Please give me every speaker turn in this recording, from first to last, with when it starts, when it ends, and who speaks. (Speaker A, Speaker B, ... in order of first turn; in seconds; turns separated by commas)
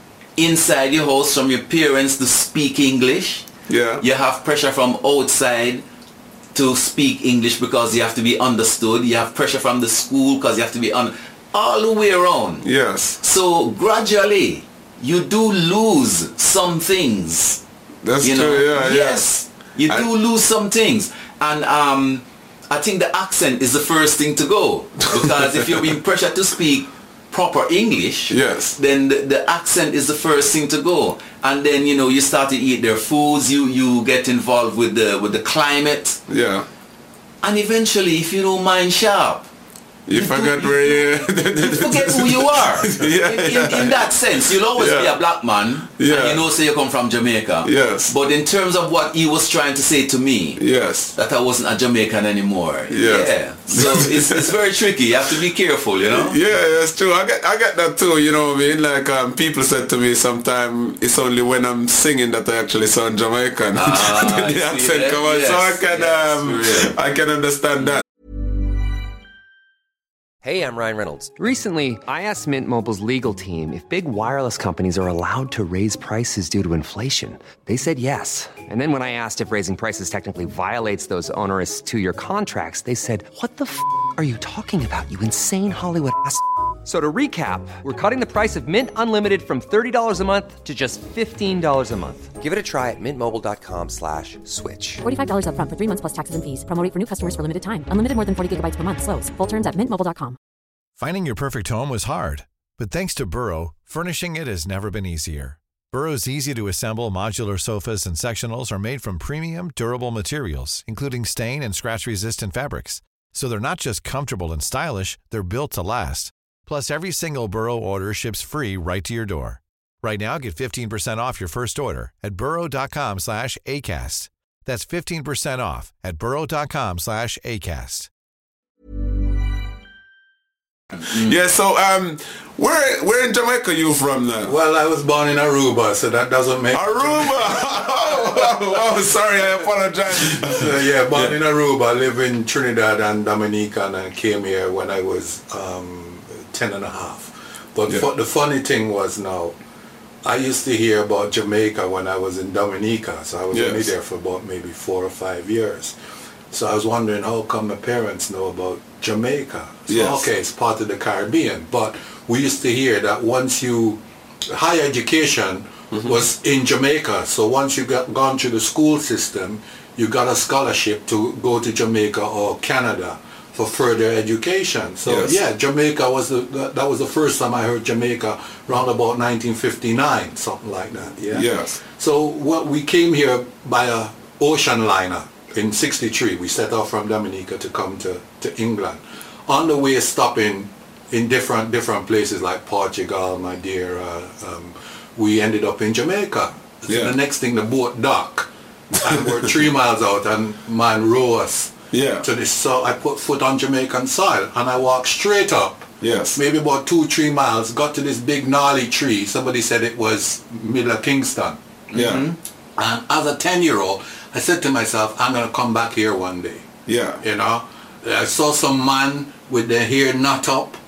Speaker A: 0.4-3.5, Speaker B: 3.7-4.0, Speaker A: 4.0-5.8, Speaker A: 6.5-12.7, Speaker B: 12.6-13.2, Speaker A: 13.2-17.6, Speaker B: 18.0-19.2, Speaker A: 18.2-36.2, Speaker B: 28.3-28.8, Speaker B: 36.3-36.6, Speaker A: 37.4-39.5, Speaker B: 40.1-45.2, Speaker A: 40.1-56.4, Speaker B: 46.0-46.4, Speaker B: 47.6-48.1, Speaker B: 50.6-51.1, Speaker B: 52.9-54.6, Speaker B: 56.1-68.0, Speaker A: 63.7-66.9, Speaker C: 70.4-95.0, Speaker D: 95.0-100.4, Speaker E: 101.0-128.1, Speaker B: 131.0-134.5, Speaker F: 134.4-138.7, Speaker B: 136.7-141.4, Speaker F: 140.2-149.6, Speaker F: 150.2-155.9, Speaker B: 153.5-153.9, Speaker F: 156.5-211.6, Speaker B: 159.9-160.2, Speaker B: 165.9-166.2, Speaker B: 175.1-175.4, Speaker B: 181.3-181.8, Speaker B: 196.9-197.2, Speaker B: 201.9-202.2, Speaker B: 206.0-206.4, Speaker A: 211.9-212.4, Speaker B: 211.9-212.3, Speaker F: 212.8-216.7, Speaker B: 216.9-217.2, Speaker F: 217.2-220.8